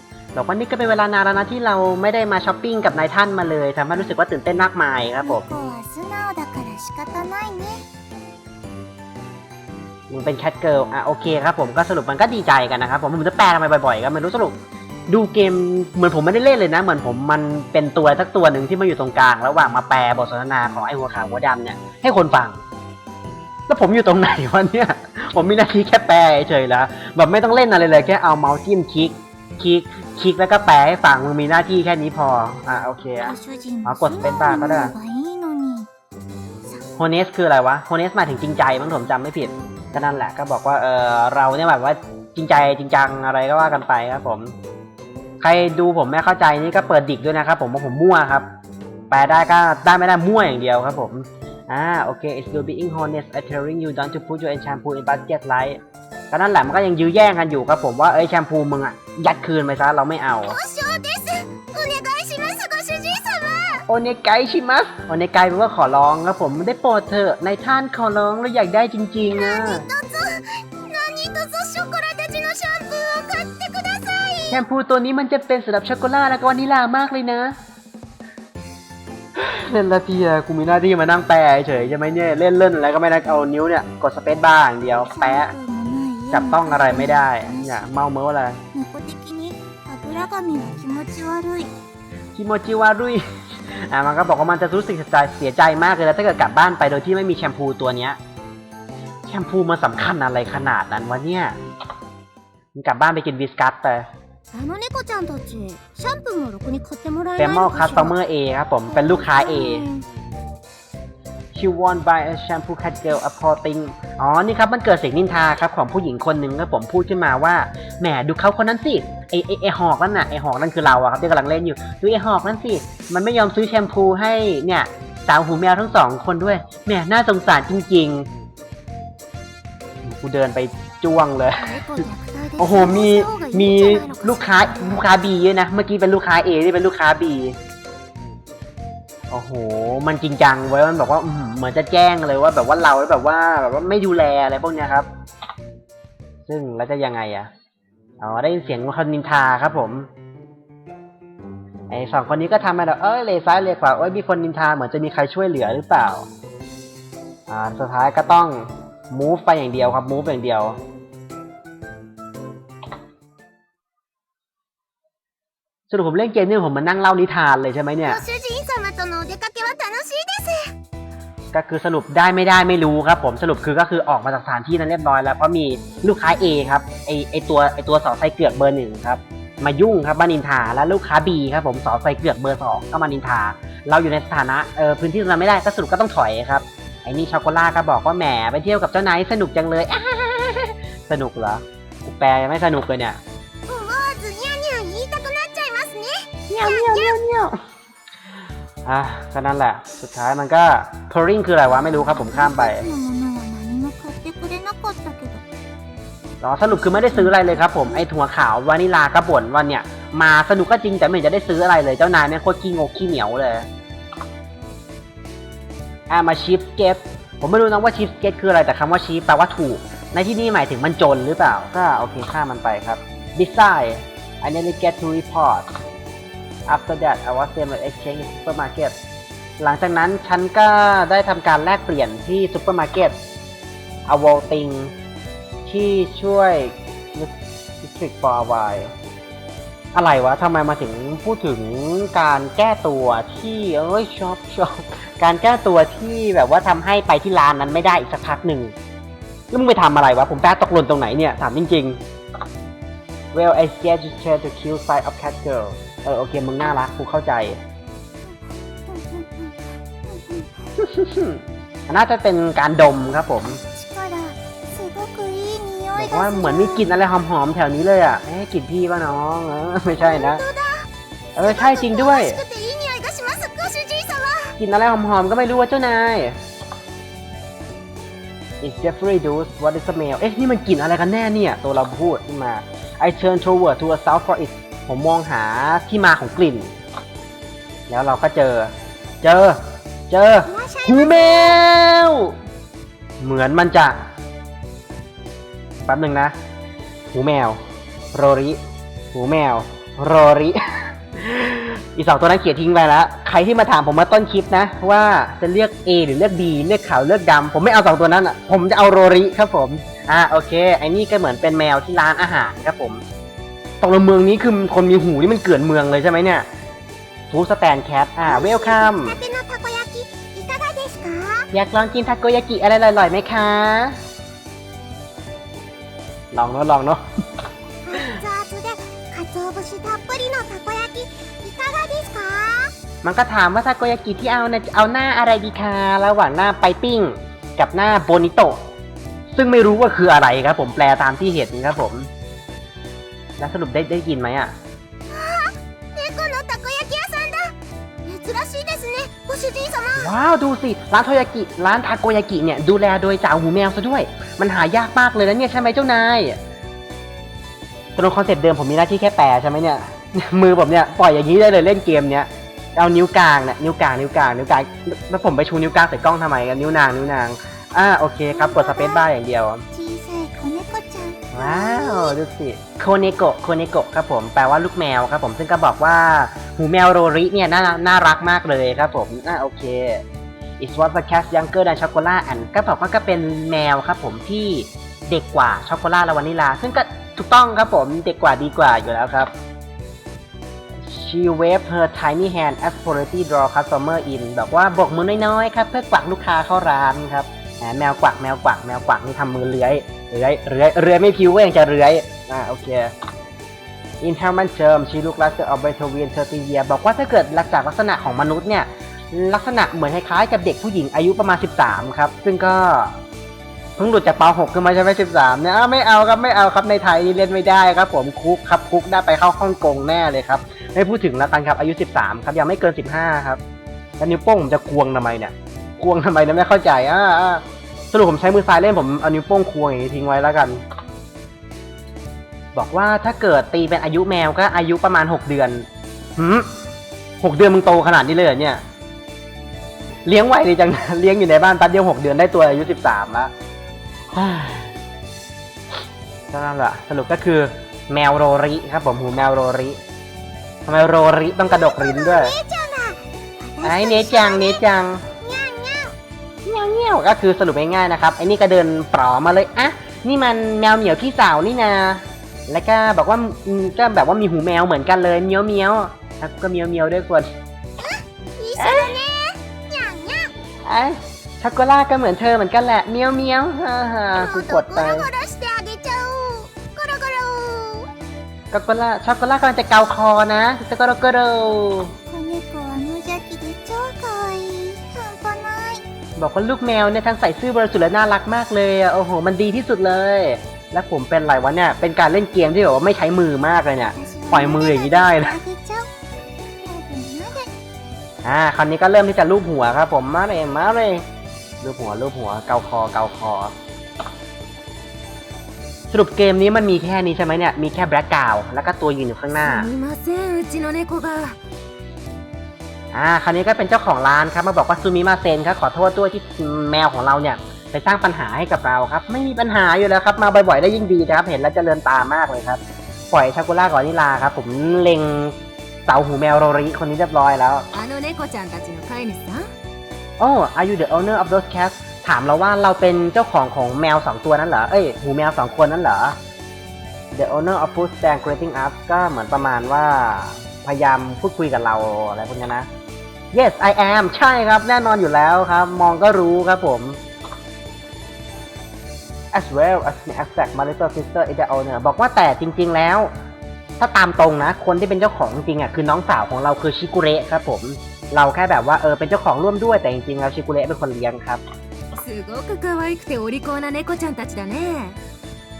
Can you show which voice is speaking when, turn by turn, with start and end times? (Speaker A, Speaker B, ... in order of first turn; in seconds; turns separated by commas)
Speaker A: 0.3-5.5, Speaker B: 5.2-7.8, Speaker A: 10.1-14.6, Speaker A: 15.1-22.6, Speaker A: 23.7-33.3, Speaker B: 33.2-35.9, Speaker A: 33.8-34.9, Speaker A: 37.0-44.5, Speaker A: 45.4-48.5, Speaker A: 49.1-55.8, Speaker A: 56.3-60.6, Speaker B: 60.5-63.8, Speaker A: 63.9-69.8, Speaker B: 69.3-74.6, Speaker A: 74.5-77.5, Speaker A: 79.3-85.5, Speaker B: 85.1-88.0, Speaker A: 86.3-88.6, Speaker B: 88.7-91.7, Speaker A: 92.3-98.2, Speaker A: 99.3-101.5, Speaker A: 102.7-104.1, Speaker B: 104.5-108.2, Speaker A: 107.4-109.8, Speaker B: 108.9-110.0, Speaker A: 111.5-128.3, Speaker A: 130.0-132.1, Speaker B: 131.6-135.1, Speaker A: 132.6-137.6, Speaker A: 139.3-145.1, Speaker A: 146.5-147.5, Speaker A: 148.2-150.1, Speaker A: 151.9-156.3, Speaker A: 157.5-160.8, Speaker A: 165.9-168.2, Speaker B: 168.0-170.7, Speaker A: 171.5-193.2, Speaker B: 193.7-197.2, Speaker A: 196.5-197.6, Speaker A: 198.8-202.8, Speaker B: 201.8-205.4, Speaker A: 206.4-213.7, Speaker B: 206.7-208.0, Speaker A: 216.1-225.7, Speaker A: 226.7-228.9, Speaker A: 229.6-233.1, Speaker A: 234.1-234.9, Speaker A: 235.7-238.9, Speaker A: 239.9-248.7, Speaker A: 249.5-252.0, Speaker A: 253.3-257.6, Speaker B: 258.2-260.7, Speaker A: 260.8-263.6, Speaker B: 263.6-266.9, Speaker A: 265.9-270.4, Speaker B: 270.0-274.6, Speaker A: 271.3-272.4, Speaker A: 274.6-276.4, Speaker A: 278.6-286.7, Speaker A: 287.9-292.3, Speaker B: 290.4-291.6, Speaker A: 293.2-294.0, Speaker A: 295.8-296.4, Speaker A: 297.1-297.6, Speaker A: 298.1-298.6, Speaker A: 299.1-313.0, Speaker A: 313.8-316.5, Speaker A: 317.3-319.1, Speaker B: 318.2-321.5, Speaker A: 321.5-324.0, Speaker A: 326.3-327.0, Speaker B: 327.8-332.7, Speaker A: 327.9-328.2, Speaker A: 333.0-338.6, Speaker A: 339.3-342.1, Speaker A: 343.4-344.5, Speaker B: 345.1-347.5, Speaker B: 348.0-350.1, Speaker A: 349.9-356.4, Speaker A: 357.9-369.6, Speaker B: 368.3-369.0, Speaker B: 369.7-372.1, Speaker A: 371.3-380.0, Speaker A: 380.6-389.3, Speaker A: 390.8-402.9, Speaker A: 404.0-412.9, Speaker A: 413.8-423.4, Speaker A: 424.0-430.6, Speaker A: 432.5-436.5, Speaker A: 437.2-438.6, Speaker A: 440.1-443.3, Speaker A: 444.1-444.7, Speaker A: 446.3-449.8, Speaker A: 450.6-452.3, Speaker B: 451.5-454.6, Speaker A: 453.6-455.1, Speaker B: 455.2-455.9, Speaker A: 456.4-467.3, Speaker B: 467.8-470.3, Speaker A: 468.6-468.9, Speaker A: 470.6-475.1, Speaker B: 474.1-477.9, Speaker A: 478.5-481.9, Speaker B: 482.1-485.8, Speaker A: 486.2-495.4, Speaker B: 494.0-495.9, Speaker B: 496.6-497.5, Speaker A: 498.2-501.1, Speaker A: 501.6-503.5, Speaker A: 505.9-509.7, Speaker C: 509.4-511.4, Speaker A: 512.9-522.6, Speaker A: 523.1-525.4, Speaker A: 525.9-527.7, Speaker C: 527.7-529.5, Speaker A: 530.2-536.2, Speaker A: 537.1-542.7, Speaker A: 543.3-547.0, Speaker A: 549.3-553.1, Speaker A: 553.8-561.4, Speaker C: 561.9-565.0